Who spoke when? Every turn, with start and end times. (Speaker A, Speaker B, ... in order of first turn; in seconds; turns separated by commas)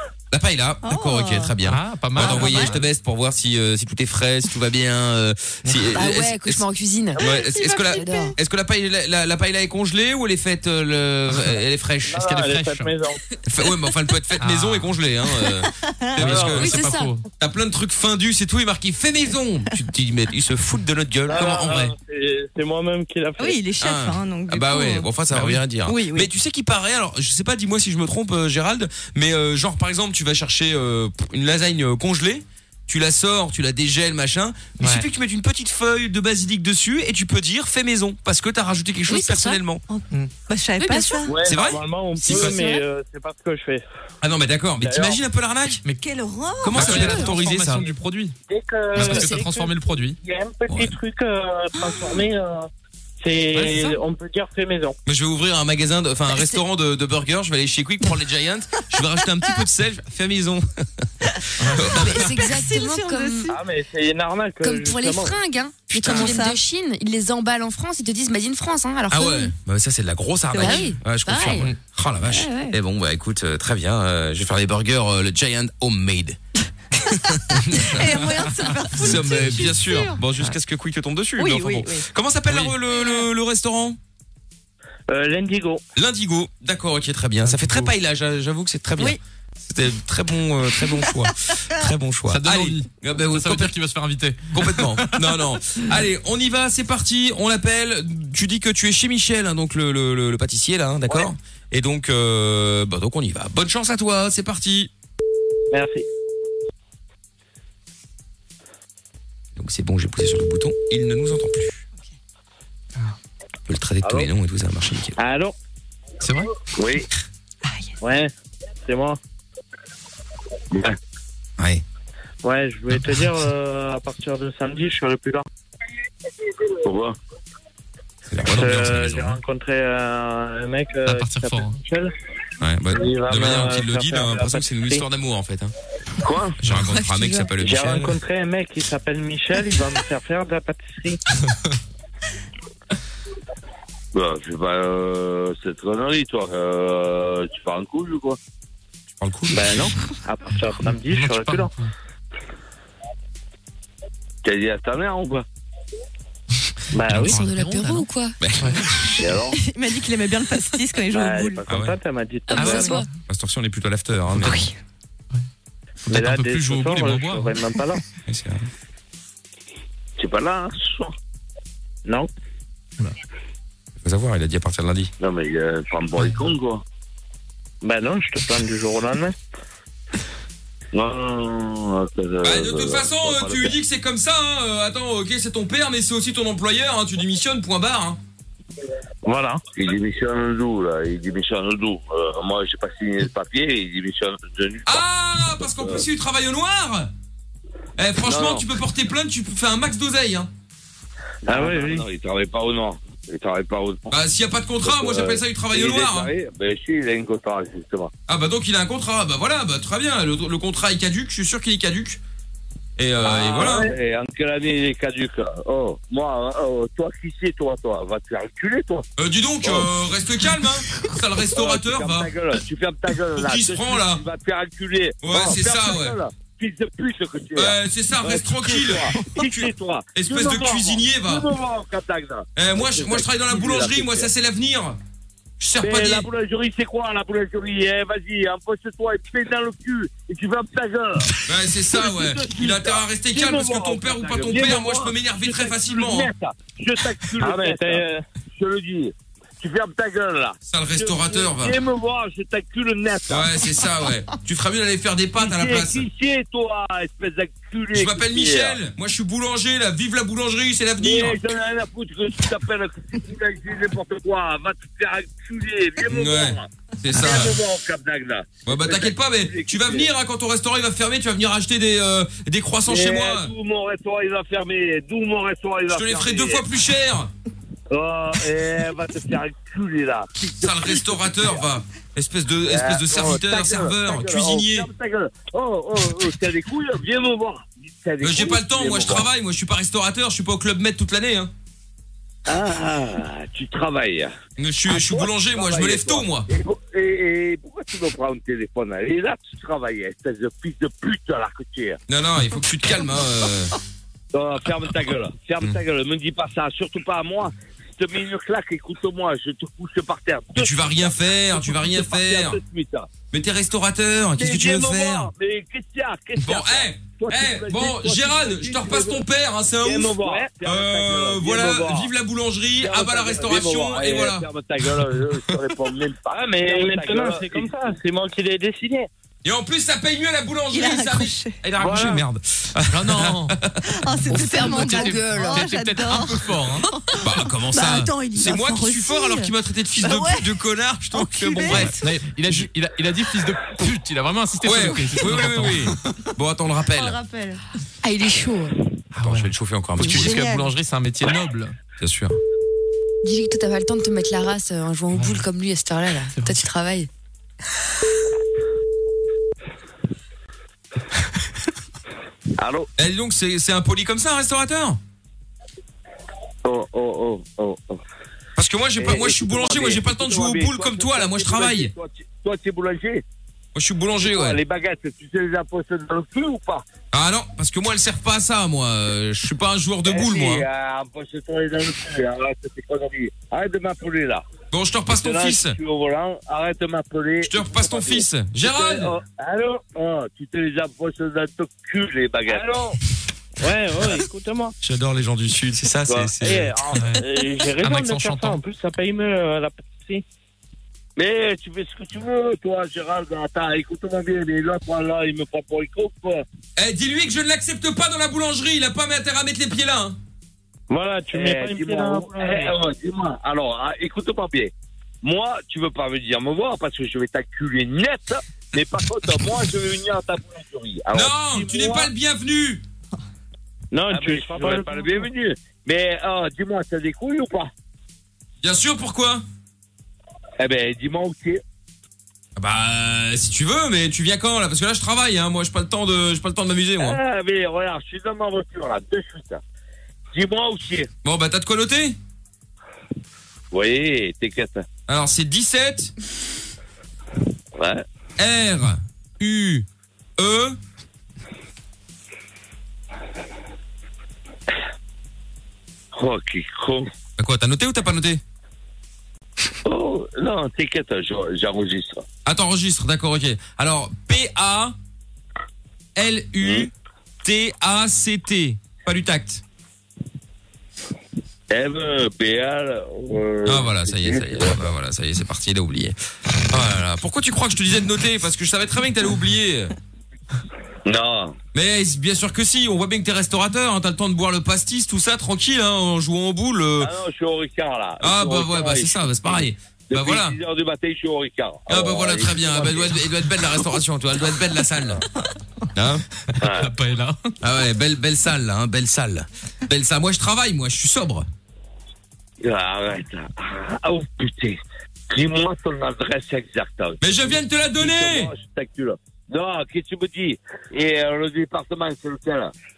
Speaker A: 0.3-6.6, Speaker B: 0.8-1.6, Speaker C: 1.6-2.8, Speaker B: 2.1-2.8, Speaker D: 5.9-7.2, Speaker A: 7.2-12.4, Speaker B: 7.2-8.3, Speaker D: 7.8-8.3, Speaker E: 12.1-13.2, Speaker C: 12.3-12.9, Speaker A: 13.4-16.8, Speaker C: 14.4-14.9, Speaker B: 15.6-16.4, Speaker C: 16.2-17.3, Speaker D: 16.5-17.1, Speaker A: 17.4-21.9, Speaker E: 21.2-23.6, Speaker B: 23.4-25.1, Speaker A: 23.8-39.8, Speaker C: 25.3-25.6, Speaker B: 25.8-26.3, Speaker C: 34.8-35.0, Speaker D: 39.1-39.6, Speaker B: 39.9-41.5, Speaker D: 40.8-41.3, Speaker E: 41.2-43.8, Speaker A: 41.4-42.6, Speaker B: 42.2-42.8, Speaker A: 44.2-45.8, Speaker E: 44.8-45.2, Speaker B: 45.9-47.3, Speaker A: 46.6-47.9, Speaker C: 46.7-48.3, Speaker E: 48.5-55.0, Speaker C: 48.9-50.2, Speaker A: 49.0-49.3, Speaker A: 50.7-50.9, Speaker B: 51.8-52.1, Speaker C: 53.5-54.0, Speaker A: 55.0-61.1, Speaker C: 61.6-62.0, Speaker A: 61.6-62.3, Speaker B: 61.8-63.6, Speaker D: 61.9-63.5, Speaker E: 63.5-65.4, Speaker D: 64.6-69.5, Speaker B: 65.9-66.6, Speaker A: 66.0-66.3, Speaker A: 69.1-76.4, Speaker B: 70.5-70.9, Speaker D: 70.5-71.7, Speaker D: 72.3-72.8, Speaker A: 77.0-78.3, Speaker B: 77.3-80.2, Speaker A: 78.9-84.0, Speaker B: 81.4-82.1, Speaker C: 82.5-82.8, Speaker E: 85.1-85.8, Speaker A: 86.0-93.7, Speaker C: 87.4-87.9, Speaker C: 92.3-95.3, Speaker A: 94.5-104.9, Speaker E: 105.7-106.0, Speaker A: 109.5-111.8, Speaker A: 113.7-115.2, Speaker F: 114.0-114.3, Speaker E: 115.2-115.5, Speaker C: 116.2-116.5, Speaker F: 116.8-117.1, Speaker B: 117.7-117.9, Speaker E: 118.0-118.3, Speaker E: 118.8-119.2, Speaker F: 120.7-121.0, Speaker A: 121.6-121.8, Speaker E: 122.4-125.5, Speaker C: 122.9-123.3, Speaker F: 126.8-127.2, Speaker A: 128.3-129.4, Speaker E: 128.4-132.1, Speaker C: 131.1-131.8, Speaker A: 132.6-135.7, Speaker E: 132.9-135.0, Speaker F: 136.2-136.6, Speaker A: 136.6-138.2, Speaker C: 136.6-137.1, Speaker B: 137.1-137.5, Speaker E: 137.6-141.2, Speaker F: 144.1-148.4, Speaker C: 149.2-149.9, Speaker E: 149.5-151.7, Speaker C: 151.1-151.9, Speaker F: 154.4-155.4, Speaker E: 156.9-157.4, Speaker C: 157.1-158.1, Speaker D: 157.1-158.3, Speaker A: 158.4-159.3, Speaker C: 158.6-158.8, Speaker F: 159.2-159.6, Speaker B: 159.5-161.7, Speaker E: 161.1-163.0, Speaker A: 161.7-162.0, Speaker D: 162.5-163.1, Speaker C: 162.5-163.0, Speaker A: 163.3-164.7, Speaker C: 164.3-164.7, Speaker C: 166.1-167.8, Speaker E: 166.1-168.0, Speaker A: 168.2-168.7, Speaker F: 170.2-171.1, Speaker A: 174.0-175.1, Speaker F: 175.2-176.8, Speaker E: 177.8-179.3, Speaker F: 180.9-183.7, Speaker A: 182.4-188.2, Speaker E: 189.2-189.6, Speaker F: 189.7-195.0, Speaker A: 194.8-197.1, Speaker F: 195.6-196.0, Speaker A: 198.0-200.5, Speaker F: 198.2-198.6, Speaker F: 201.4-204.1, Speaker E: 201.5-202.1, Speaker A: 204.1-206.3, Speaker F: 204.8-208.1, Speaker A: 208.3-212.2, Speaker A: 213.0-213.9, Speaker F: 213.2-219.1, Speaker A: 219.2-222.3, Speaker F: 219.6-219.9, Speaker F: 221.4-234.3, Speaker A: 223.3-224.2, Speaker A: 225.2-226.2, Speaker A: 227.6-231.4, Speaker A: 232.6-235.0, Speaker A: 235.6-236.3, Speaker F: 235.8-241.4, Speaker A: 241.4-246.3, Speaker F: 241.9-248.0, Speaker E: 247.4-248.2, Speaker F: 248.5-253.5, Speaker A: 250.7-251.8, Speaker A: 253.3-256.1, Speaker F: 255.4-258.8, Speaker A: 257.9-261.4, Speaker F: 261.0-270.1, Speaker A: 266.1-267.6, Speaker A: 268.6-273.5, Speaker F: 272.9-276.6, Speaker A: 275.9-277.3, Speaker F: 277.9-281.6, Speaker A: 280.6-284.9, Speaker F: 282.7-289.2, Speaker A: 288.2-291.5, Speaker F: 292.4-294.3, Speaker A: 294.6-296.5, Speaker F: 294.9-302.0, Speaker A: 302.1-303.7, Speaker F: 304.3-313.1, Speaker A: 310.6-312.6, Speaker A: 313.3-315.3, Speaker F: 314.4-319.2, Speaker A: 316.4-324.4, Speaker F: 319.8-322.1, Speaker E: 320.2-320.5, Speaker F: 322.8-327.7, Speaker E: 326.3-329.1, Speaker A: 329.4-333.8, Speaker B: 330.7-331.6, Speaker E: 331.7-332.2, Speaker C: 332.9-333.6, Speaker B: 333.9-340.5, Speaker C: 334.3-336.9, Speaker D: 334.4-335.6, Speaker A: 337.2-342.7, Speaker B: 341.1-342.1, Speaker C: 341.7-346.0, Speaker A: 344.6-347.2, Speaker B: 346.9-347.6, Speaker D: 348.0-348.8, Speaker C: 349.1-351.7, Speaker A: 349.2-350.5, Speaker B: 350.0-350.7, Speaker A: 352.0-352.4, Speaker D: 353.2-357.1, Speaker C: 355.1-355.4, Speaker F: 362.6-362.9, Speaker A: 363.0-365.0, Speaker F: 366.6-368.0, Speaker A: 368.6-371.9, Speaker F: 369.0-373.2, Speaker A: 373.7-374.6, Speaker F: 374.2-376.8, Speaker A: 377.1-380.6, Speaker F: 380.1-384.4, Speaker A: 384.7-385.8, Speaker F: 385.1-392.9, Speaker A: 387.4-389.1, Speaker E: 392.5-392.9, Speaker E: 393.6-394.7, Speaker A: 394.8-396.8, Speaker F: 396.1-396.6, Speaker E: 396.4-400.2, Speaker C: 396.9-397.2, Speaker C: 397.8-398.6, Speaker F: 401.1-406.4, Speaker A: 406.8-410.2, Speaker E: 410.9-412.8, Speaker F: 411.3-414.7, Speaker F: 415.2-422.1, Speaker A: 421.1-422.8, Speaker E: 423.9-425.3, Speaker F: 424.1-427.7, Speaker A: 428.6-429.4, Speaker F: 430.6-431.6, Speaker A: 432.6-437.2, Speaker F: 437.0-439.6, Speaker F: 440.3-441.1, Speaker A: 441.2-442.2, Speaker F: 443.7-444.9, Speaker A: 445.1-446.1, Speaker F: 447.8-448.0, Speaker A: 448.4-449.9, Speaker A: 450.4-450.8, Speaker F: 456.1-457.1, Speaker A: 457.4-458.4, Speaker F: 459.8-462.2, Speaker A: 462.4-464.9, Speaker A: 466.1-466.9, Speaker F: 466.6-466.9, Speaker A: 467.4-469.6, Speaker F: 471.7-474.9, Speaker A: 473.6-476.1, Speaker A: 476.7-479.9, Speaker F: 481.0-481.6, Speaker A: 481.7-487.1, Speaker F: 487.0-493.1, Speaker A: 488.2-490.6, Speaker A: 491.9-495.2, Speaker A: 495.9-496.2, Speaker C: 496.5-497.4, Speaker F: 496.6-496.9, Speaker A: 497.6-501.5, Speaker F: 502.6-512.7, Speaker A: 507.2-508.5